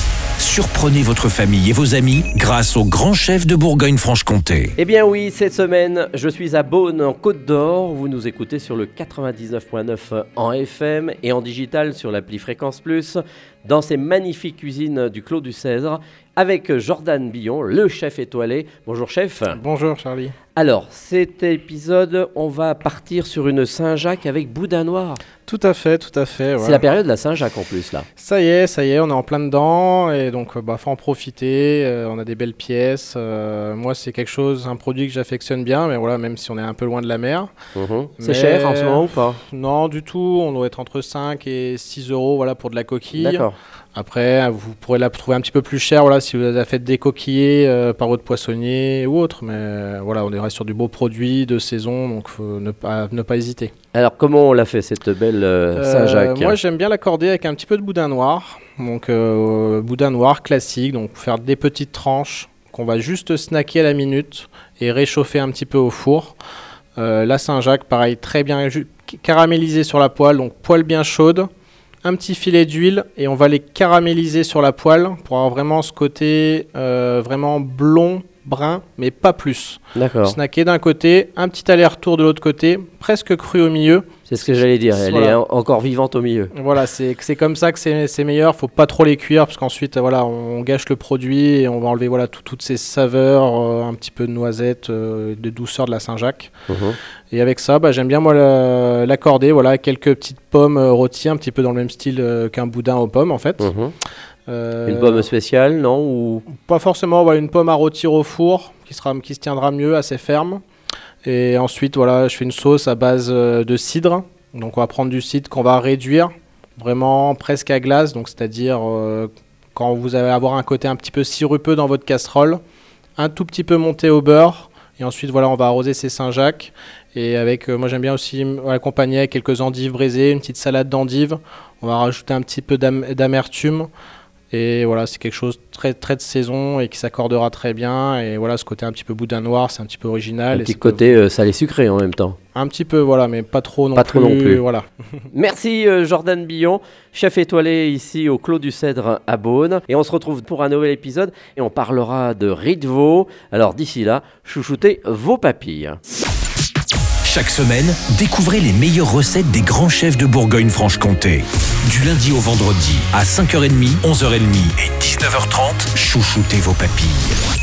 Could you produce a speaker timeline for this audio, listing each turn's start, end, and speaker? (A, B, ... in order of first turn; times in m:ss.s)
0:00.4-0:04.7 A
0:04.8-0:19.6 B
0:19.5-0:20.3 C
0:20.5-0:25.2 B
0:25.4-0:26.8 C
0:26.6-0:28.0 B
0:28.2-0:37.5 C
0:37.7-0:39.4 B
0:38.2-0:53.7 C
0:43.1-0:43.6 B
0:53.9-0:56.6 B
0:55.8-1:06.4 C
1:07.0-1:11.5 C
1:12.0-1:25.4 C
1:19.9-1:20.4 B
1:24.2-1:26.5 B
1:26.5-1:36.5 C
1:36.7-1:37.0 B
1:37.3-1:43.7 C
1:43.6-1:43.9 B
1:44.5-1:45.3 C
1:44.8-1:46.4 B
1:46.5-1:50.6 C
1:51.2-2:02.6 C
2:03.2-2:13.9 C
2:14.5-2:21.2 C
2:20.5-2:22.4 B
2:22.5-2:24.8 C
2:23.9-2:24.6 B
2:25.3-2:36.0 B
2:37.2-2:47.4 A